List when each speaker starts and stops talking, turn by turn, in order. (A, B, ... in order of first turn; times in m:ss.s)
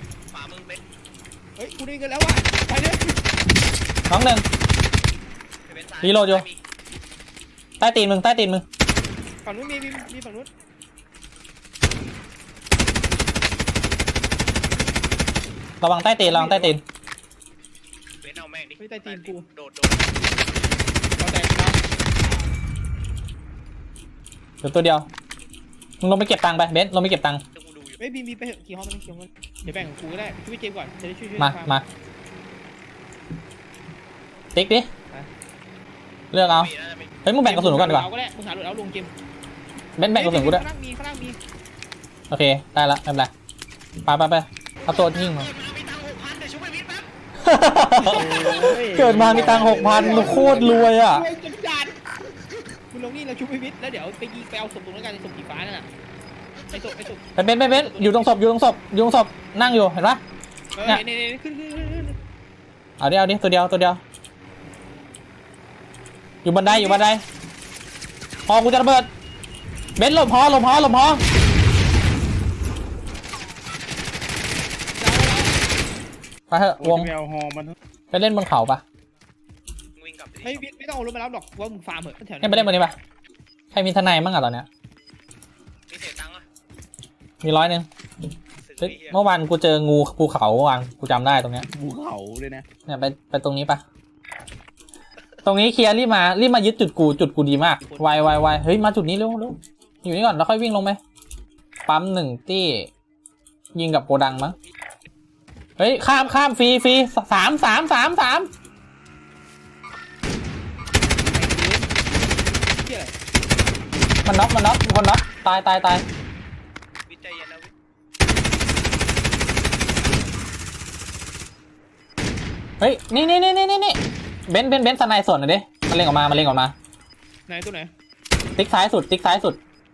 0:00.3-0:00.8 A
0:01.6-0:03.2 B
0:04.1-0:04.4 C
0:05.7-0:06.6 A
0:06.0-0:06.5 C
0:07.8-0:08.6 C
0:09.4-0:10.5 B
0:15.8-0:16.8 C
0:16.2-0:16.8 B
0:18.2-0:20.2 A
0:18.8-0:19.4 B
0:21.2-0:21.8 B
0:24.6-0:25.1 C
0:26.0-0:27.4 C
0:27.5-0:28.0 A
0:28.0-0:31.8 B
0:31.4-0:31.8 C
0:34.5-0:34.9 C
0:36.3-0:36.7 C
0:36.4-0:37.3 A
0:37.2-0:38.1 C
0:37.4-0:39.1 B
0:40.0-0:40.6 C
0:40.1-0:41.4 B
0:42.3-0:43.3 C
0:44.0-0:45.5 C
0:44.8-0:47.1 A
0:47.4-0:51.3 C
0:48.0-0:48.8 B
0:48.0-0:50.8 D
0:49.9-0:52.0 B
0:52.9-0:55.9 B
0:56.6-0:57.0 A
0:56.7-0:58.2 B
0:57.4-1:00.2 C
1:00.8-1:02.2 B
1:03.0-1:04.0 C
1:06.4-1:07.2 C
1:06.6-1:07.0 B
1:08.5-1:09.1 C
1:10.0-1:11.2 C
1:15.0-1:15.5 B
1:16.5-1:17.1 C
1:16.8-1:17.8 D
1:18.1-1:18.8 C
1:20.0-1:20.7 A
1:20.4-1:22.8 B
1:22.4-1:23.0 C
1:23.7-1:24.7 C
1:25.9-1:26.4 A
1:27.4-1:27.9 C
1:28.6-1:29.2 A
1:28.8-1:31.7 C
1:31.7-1:32.6 D
1:32.9-1:33.8 C
1:35.4-1:41.0 C
1:37.8-1:38.5 D
1:41.9-1:42.9 C
1:43.8-1:44.6 C
1:44.4-1:44.7 A
1:45.8-1:48.5 C
1:51.3-1:51.9 B
1:52.8-1:53.1 B
1:54.2-1:56.0 C
1:57.1-1:57.7 A
2:02.8-2:06.7 C
2:07.5-2:07.9 B
2:08.6-2:09.6 C